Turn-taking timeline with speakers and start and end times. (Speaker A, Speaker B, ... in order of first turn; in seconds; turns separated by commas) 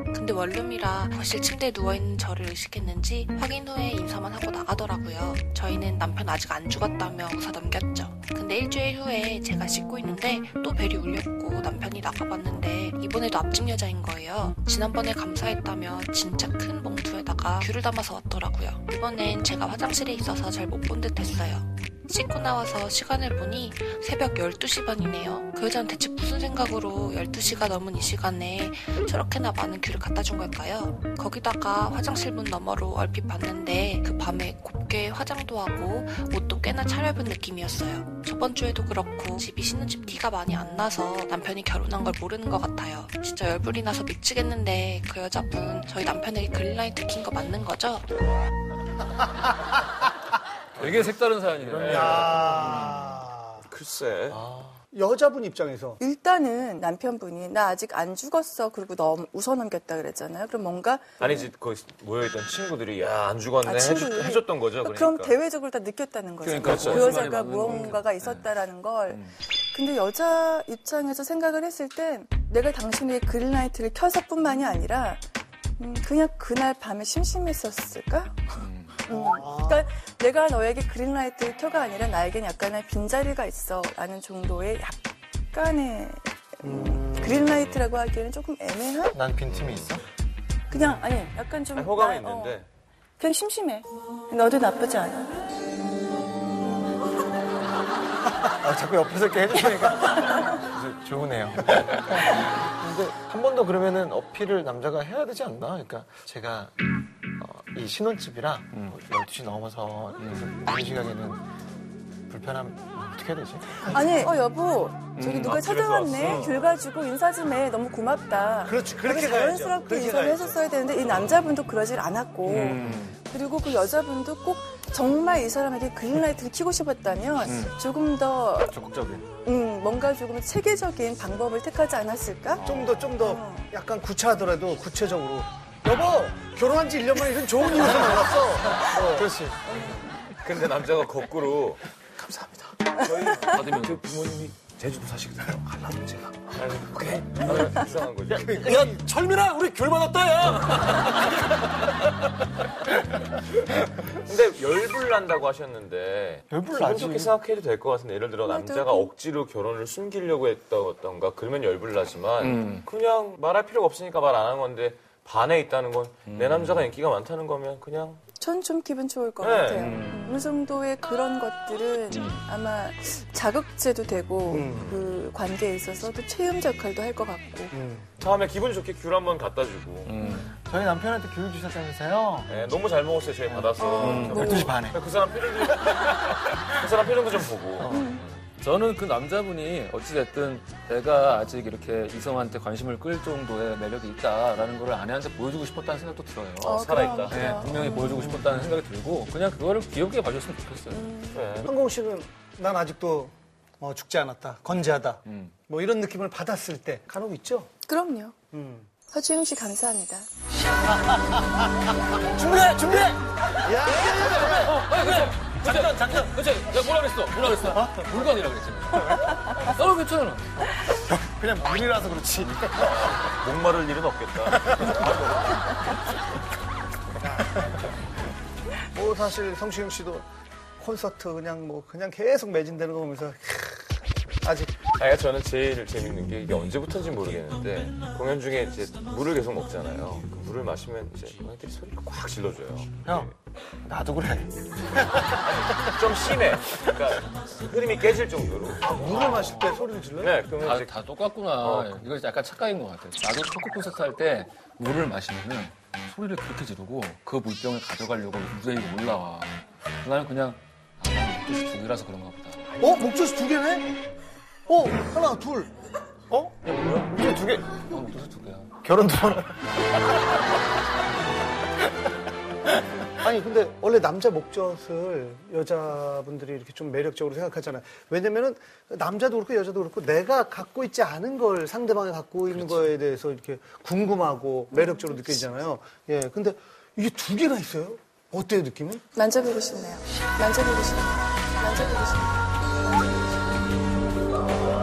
Speaker A: 0.1-48.1, Speaker B: 50.8-53.0, Speaker C: 51.7-52.0, Speaker D: 51.8-53.7, Speaker C: 53.7-54.4, Speaker E: 54.3-54.8, Speaker D: 54.9-56.0, Speaker F: 56.0-61.5, Speaker C: 61.2-65.4, Speaker F: 63.6-75.2, Speaker B: 66.4-68.5, Speaker C: 66.6-67.1, Speaker B: 69.1-69.4, Speaker F: 75.8-89.2, Speaker B: 78.6-79.0, Speaker D: 79.1-79.8, Speaker D: 86.6-87.1, Speaker E: 89.1-90.0, Speaker F: 90.7-92.6, Speaker C: 91.7-92.7, Speaker F: 93.2-95.4, Speaker E: 98.4-106.8, Speaker E: 107.4-111.5, Speaker B: 110.2-110.5, Speaker E: 112.3-113.8, Speaker F: 113.9-128.8, Speaker B: 115.2-115.6, Speaker C: 115.4-116.7, Speaker D: 118.7-120.6, Speaker B: 122.5-123.2, Speaker B: 127.5-127.7, Speaker B: 128.7-129.3, Speaker F: 129.4-133.7, Speaker D: 132.6-139.4, Speaker E: 137.8-139.6, Speaker C: 140.3-141.8, Speaker C: 142.9-148.8, Speaker B: 143.4-144.1, Speaker E: 148.7-150.1, Speaker B: 149.2-151.1, Speaker C: 154.3-168.2, Speaker E: 156.5-157.4, Speaker F: 158.5-159.1, Speaker B: 162.4-162.9, Speaker B: 166.3-166.9, Speaker F: 168.4-177.8, Speaker C: 169.4-169.9, Speaker B: 169.8-170.4, Speaker B: 172.1-172.4, Speaker D: 174.5-174.9, Speaker C: 174.7-175.0, Speaker D: 177.7-178.1, Speaker C: 178.2-180.2, Speaker B: 180.1-180.5, Speaker E: 180.6-182.6, Speaker C: 182.5-188.4, Speaker E: 183.5-185.0, Speaker F: 183.8-184.8, Speaker B: 184.0-184.5, Speaker E: 187.8-188.2, Speaker F: 187.9-188.2, Speaker B: 188.6-201.2, Speaker F: 196.6-198.5, Speaker C: 196.8-197.6, Speaker F: 200.9-201.4, Speaker C: 201.3-201.7, Speaker D: 201.6-207.7, Speaker B: 205.2-205.6, Speaker F: 207.9-208.4, Speaker D: 208.5-208.9, Speaker F: 209.1-210.3, Speaker E: 212.3-216.3, Speaker D: 213.6-214.2, Speaker B: 214.1-220.7, Speaker E: 217.7-218.0, Speaker E: 220.9-223.1, Speaker C: 222.8-225.6, Speaker D: 227.2-227.8, Speaker D: 228.9-230.3, Speaker D: 230.8-234.9, Speaker C: 235.0-243.3, Speaker E: 243.1-245.3, Speaker C: 245.4-249.4, Speaker D: 248.8-250.4, Speaker C: 250.2-251.0, Speaker B: 250.5-262.7, Speaker C: 251.6-252.1, Speaker D: 262.8-263.9, Speaker D: 264.7-265.7, Speaker E: 266.3-267.8, Speaker B: 267.8-268.7, Speaker E: 268.8-270.2, Speaker D: 273.2-289.0, Speaker B: 282.5-282.9, Speaker F: 284.7-285.1, Speaker F: 289.1-292.4